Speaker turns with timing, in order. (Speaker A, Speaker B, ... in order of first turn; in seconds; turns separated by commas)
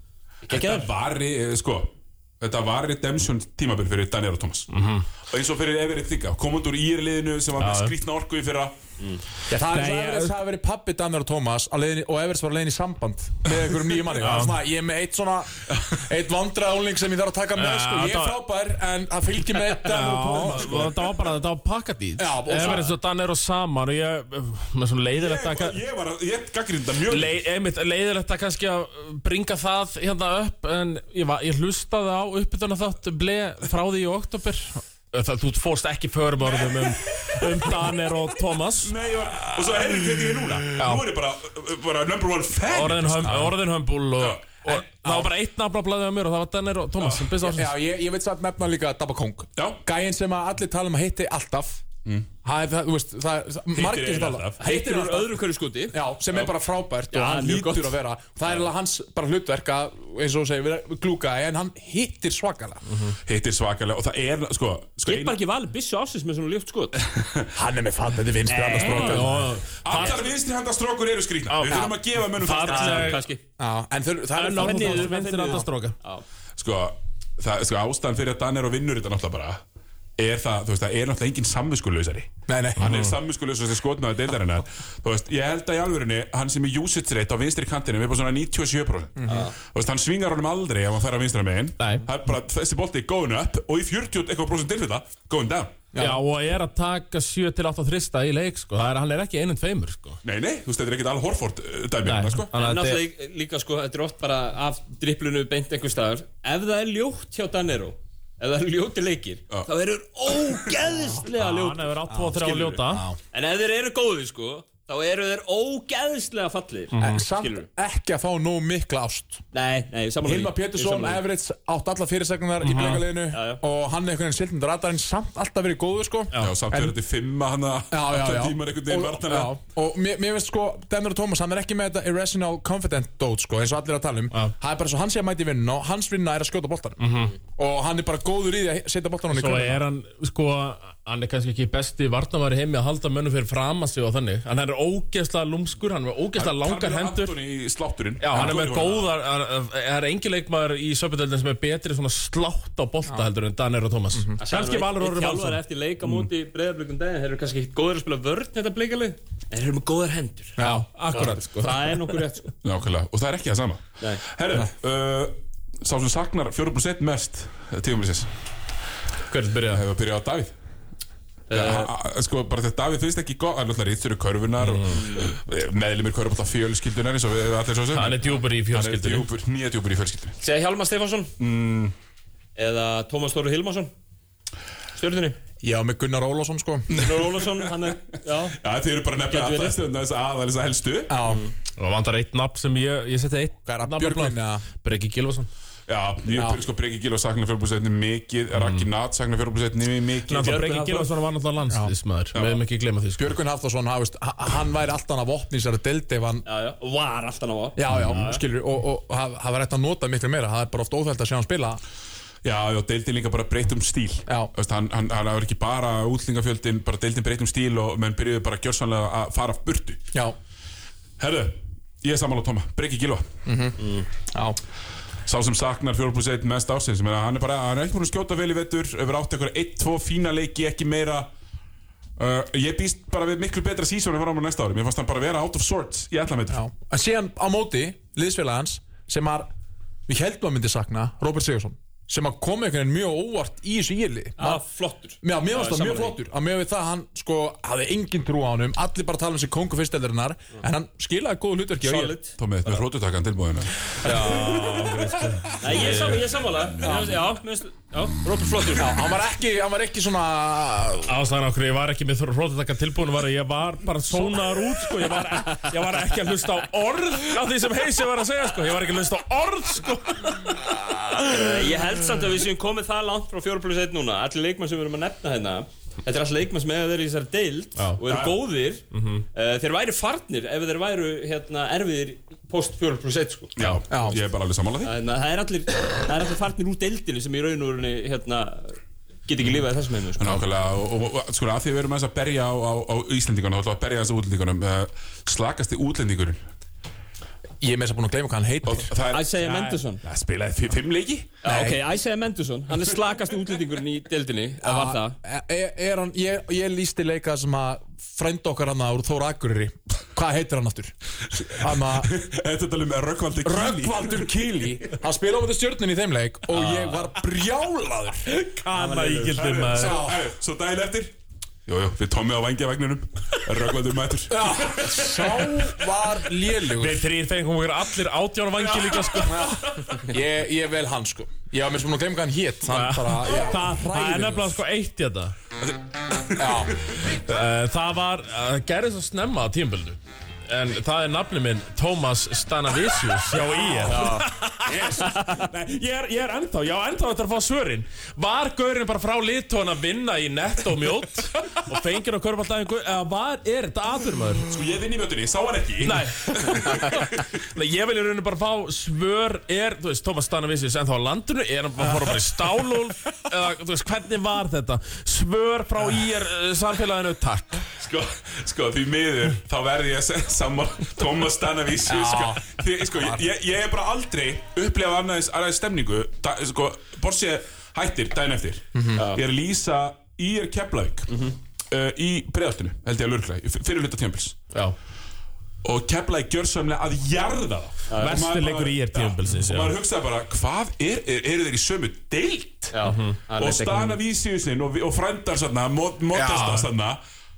Speaker A: 0.4-0.9, Speaker B: 0.5-4.7, Speaker C: 4.7-5.1, Speaker B: 5.2-8.8, Speaker C: 7.6-7.9, Speaker D: 9.5-20.9, Speaker C: 9.7-10.4, Speaker C: 14.2-14.6, Speaker B: 15.7-16.0, Speaker C: 17.6-18.4, Speaker C: 19.6-25.8, Speaker D: 22.2-22.9, Speaker B: 25.1-27.4, Speaker C: 27.1-38.9, Speaker B: 36.4-37.8, Speaker B: 38.7-43.5, Speaker C: 40.8-41.0, Speaker C: 42.7-47.7, Speaker D: 43.2-43.5, Speaker B: 44.2-45.1, Speaker B: 47.0-47.4, Speaker D: 47.4-51.8, Speaker B: 52.0-52.3, Speaker D: 52.4-55.4, Speaker B: 53.7-54.6, Speaker A: 54.6-56.0, Speaker D: 55.9-62.8, Speaker A: 57.1-58.0, Speaker B: 63.2-65.4, Speaker A: 65.0-67.0, Speaker B: 67.0-67.5, Speaker D: 67.5-69.4, Speaker A: 68.5-69.3, Speaker B: 68.9-73.2, Speaker C: 69.0-70.2, Speaker C: 71.5-73.2, Speaker A: 72.5-73.4, Speaker D: 73.6-75.2, Speaker C: 74.4-75.9, Speaker A: 74.4-76.2, Speaker B: 76.6-79.6, Speaker B: 80.2-95.8, Speaker D: 82.5-83.0, Speaker C: 82.8-83.1, Speaker D: 89.2-89.5, Speaker A: 89.3-89.5, Speaker C: 91.8-92.0, Speaker D: 95.9-96.2, Speaker C: 96.0-100.2, Speaker B: 100.2-102.5, Speaker C: 102.0-103.0, Speaker A: 102.6-112.8, Speaker C: 111.3-113.0, Speaker D: 112.1-113.2, Speaker A: 113.3-117.7, Speaker C: 116.9-117.2, Speaker D: 117.0-119.4, Speaker A: 119.5-121.2, Speaker D: 120.2-127.0, Speaker C: 122.6-123.1, Speaker A: 123.3-123.6, Speaker B: 126.4-129.6, Speaker D: 127.9-139.8, Speaker C: 137.0-137.3, Speaker C: 139.3-147.3, Speaker B: 146.3-149.1, Speaker C: 148.2-155.6, Speaker D: 154.1-154.4, Speaker A: 154.4-160.6, Speaker D: 160.6-161.7, Speaker C: 160.6-162.1, Speaker A: 161.1-162.5, Speaker B: 162.6-168.3, Speaker C: 169.3-169.8, Speaker B: 169.7-170.5, Speaker A: 171.5-171.9, Speaker B: 171.5-180.4, Speaker C: 174.6-175.0, Speaker A: 174.9-175.3, Speaker C: 177.9-179.3, Speaker A: 180.4-181.3, Speaker B: 181.4-181.9, Speaker A: 182.6-183.9, Speaker A: 184.9-185.4, Speaker D: 185.6-187.0, Speaker B: 186.9-191.2, Speaker A: 187.0-188.6, Speaker A: 189.3-189.8, Speaker D: 191.1-191.4, Speaker C: 191.8-195.5, Speaker D: 193.7-194.6, Speaker B: 195.9-200.8, Speaker D: 196.3-196.6, Speaker C: 198.5-198.9, Speaker C: 200.3-203.3, Speaker A: 200.3-201.1, Speaker D: 201.7-201.9, Speaker B: 202.3-202.6, Speaker D: 203.2-206.4, Speaker A: 206.4-208.4, Speaker D: 207.8-211.8, Speaker C: 207.9-208.4, Speaker B: 212.4-220.1, Speaker B: 221.2-223.3, Speaker D: 223.4-224.6, Speaker B: 225.2-231.3, Speaker B: 232.2-236.6, Speaker D: 236.5-239.5, Speaker D: 240.1-244.6, Speaker A: 244.4-246.2, Speaker D: 245.2-252.1, Speaker A: 251.8-252.8, Speaker B: 252.4-255.3, Speaker C: 253.9-256.2, Speaker D: 254.0-254.6, Speaker A: 255.6-258.9, Speaker D: 256.8-257.2, Speaker D: 258.7-261.1, Speaker C: 261.1-271.4, Speaker A: 265.1-265.6, Speaker A: 271.3-283.5, Speaker B: 278.1-278.4, Speaker C: 278.9-279.2, Speaker B: 283.6-284.9, Speaker D: 283.9-284.2, Speaker A: 284.8-290.4, Speaker B: 290.2-296.4, Speaker D: 297.6-298.9, Speaker B: 298.6-299.4, Speaker A: 299.1-300.0, Speaker C: 299.4-299.8, Speaker B: 300.0-301.4, Speaker A: 301.4-305.1, Speaker D: 301.4-301.8, Speaker D: 304.6-312.1, Speaker B: 311.5-314.3, Speaker D: 313.4-318.3, Speaker C: 318.3-320.0, Speaker A: 318.7-319.4, Speaker B: 319.3-321.1, Speaker D: 319.8-320.3, Speaker B: 321.6-325.7, Speaker D: 324.3-327.1, Speaker C: 326.7-329.6, Speaker B: 328.5-330.1, Speaker D: 329.2-334.6, Speaker C: 332.6-335.3, Speaker B: 335.6-337.0, Speaker D: 336.4-336.7, Speaker C: 337.1-354.5, Speaker A: 343.8-344.3, Speaker A: 345.1-345.4, Speaker B: 354.5-357.3, Speaker C: 355.8-367.6, Speaker B: 367.7-384.4, Speaker D: 371.9-373.2, Speaker D: 378.7-379.0, Speaker A: 378.9-379.2, Speaker A: 381.1-381.3, Speaker B: 385.6-397.0, Speaker A: 387.9-388.2, Speaker C: 388.0-389.8, Speaker A: 392.7-394.0, Speaker C: 392.8-393.2, Speaker D: 396.1-396.6, Speaker C: 396.3-396.6